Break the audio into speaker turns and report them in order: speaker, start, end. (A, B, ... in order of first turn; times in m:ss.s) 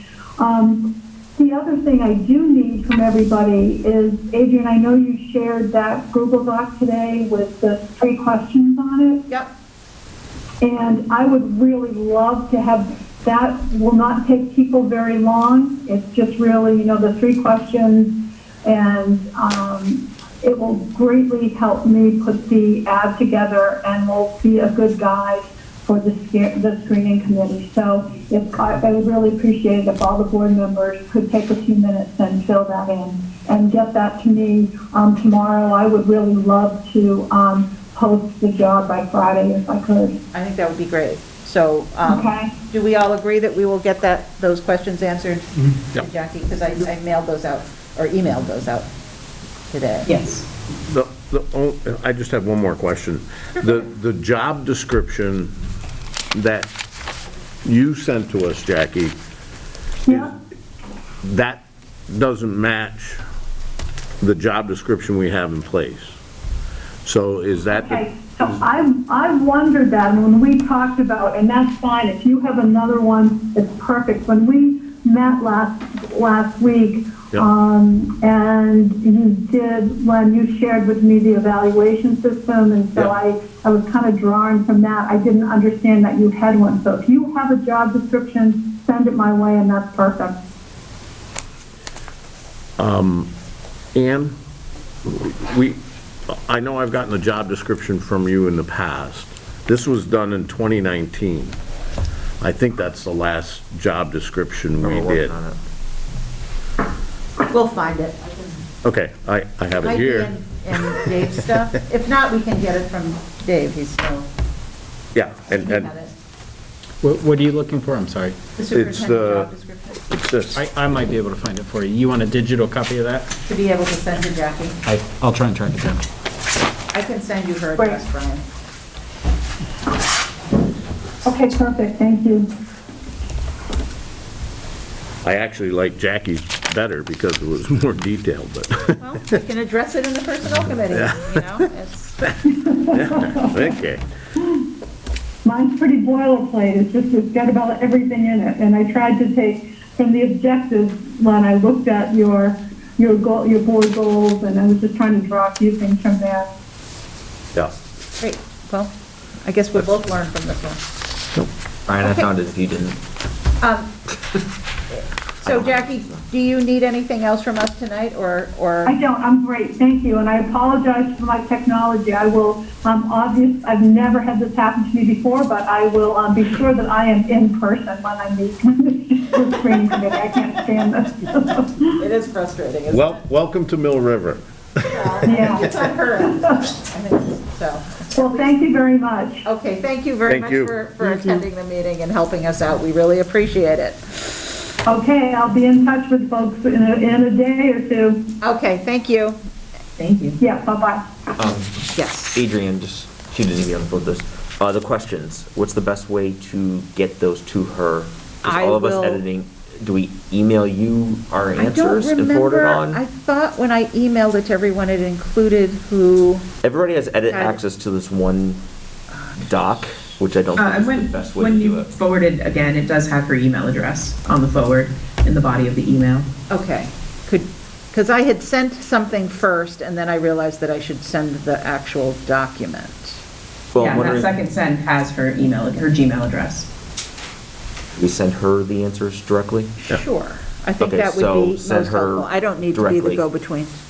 0:00.4-0:09.2 A
0:10.6-0:18.1 A
0:18.6-0:40.2 A
0:40.3-0:48.9 B
0:42.0-0:42.5 A
0:49.7-0:50.1 B
0:50.1-0:50.4 C
0:50.1-0:50.4 D
0:50.8-0:55.6 E
0:56.3-0:56.7 E
0:57.6-0:59.2 E
1:00.1-1:00.3 A
1:00.1-1:00.4 E
1:01.2-1:03.2 E
1:04.2-1:06.2 E
1:07.0-1:08.6 E
1:07.7-1:30.4 A
1:32.8-1:33.3 E
1:33.9-1:34.4 E
1:35.0-1:41.6 E
1:42.4-1:45.3 E
1:44.8-1:45.6 F
1:47.5-1:48.5 B
1:48.8-1:51.0 E
1:49.8-1:54.3 B
1:55.1-1:55.9 E
1:55.5-1:56.1 B
1:57.0-1:58.4 D
1:58.6-2:00.0 B
1:58.7-1:59.5 E
2:00.1-2:00.8 E
2:00.5-2:03.3 D
2:03.5-2:04.8 B
2:04.9-2:06.0 D
2:06.9-2:08.4 B
2:07.8-2:08.0 A
2:11.2-2:12.5 A
2:15.2-2:19.1 E
2:19.0-2:22.2 B
2:20.9-2:21.5 E
2:22.4-2:23.7 A
2:22.9-2:24.0 E
2:25.4-2:36.5 A
2:38.2-2:38.9 B
2:39.4-2:40.8 B
2:41.9-2:43.0 F
2:42.0-2:42.3 B
2:43.6-2:43.9 B
2:45.4-2:49.0 B
2:45.4-2:46.0 F
2:48.8-3:02.0 A
3:02.0-3:03.2 B
3:02.9-3:05.1 E
3:04.9-3:08.6 B
3:05.2-3:06.7 A
3:08.2-3:09.5 A
3:09.4-3:14.0 B
3:10.3-3:10.8 E
3:14.9-3:18.2 A
3:18.4-3:19.4 B
3:20.0-3:20.4 C
3:20.4-3:21.1 A
3:21.4-3:33.0 F
3:21.9-3:22.4 B
3:28.4-3:29.2 B
3:31.6-3:36.5 B
3:36.6-3:38.6 F
3:37.3-3:37.6 B
3:39.4-3:41.9 F
3:40.6-3:46.3 C
3:46.5-3:53.2 B
3:53.7-3:54.3 F
3:53.8-3:56.7 C
3:58.0-3:59.8 F
3:59.8-4:03.8 B
4:00.8-4:03.2 F